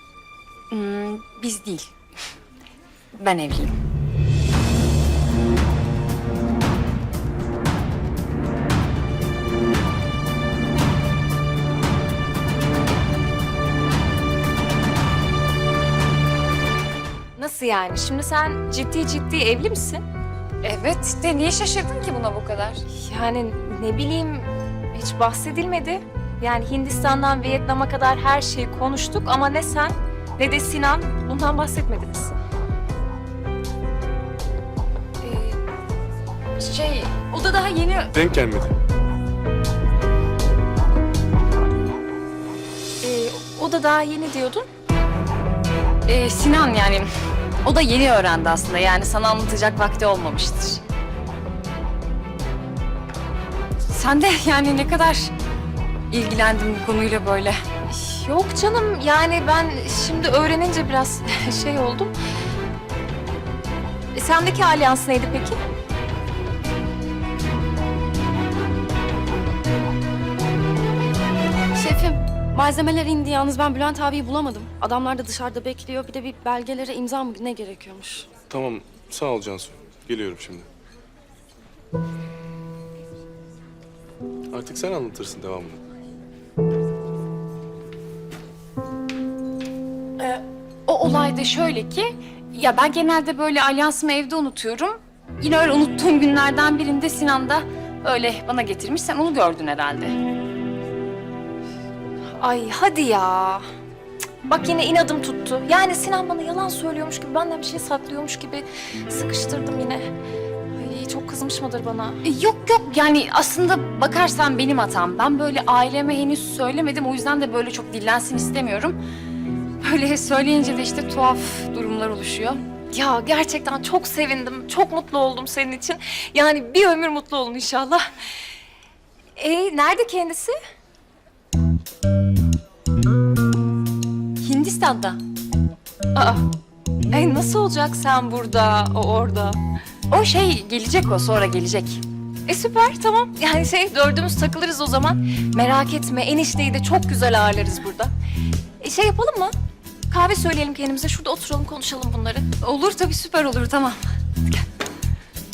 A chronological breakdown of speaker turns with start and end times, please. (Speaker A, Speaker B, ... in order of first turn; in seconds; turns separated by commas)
Speaker A: 0.7-1.9, Speaker A: 3.2-3.8, Speaker B: 17.4-20.0, Speaker A: 20.6-22.8, Speaker B: 22.9-32.3, Speaker A: 35.2-35.6, Speaker A: 36.6-38.1, Speaker C: 38.1-38.7, Speaker B: 43.0-44.6, Speaker A: 46.1-47.1, Speaker A: 47.6-50.8, Speaker A: 53.9-55.3, Speaker A: 56.1-57.6, Speaker B: 57.9-62.1, Speaker B: 64.1-65.6, Speaker D: 71.8-78.3, Speaker C: 78.5-80.7, Speaker C: 84.5-85.8, Speaker A: 90.2-100.2, Speaker B: 102.4-103.6, Speaker B: 104.4-110.1, Speaker B: 110.7-112.2, Speaker A: 112.2-119.0, Speaker A: 119.8-122.6, Speaker B: 122.9-128.0, Speaker B: 129.3-130.5, Speaker A: 134.4-135.2, Speaker B: 136.1-136.4, Speaker B: 137.1-139.6, Speaker A: 140.1-142.0, Speaker B: 142.5-148.1, Speaker B: 148.8-149.5, Speaker B: 150.1-152.5, Speaker A: 152.6-154.0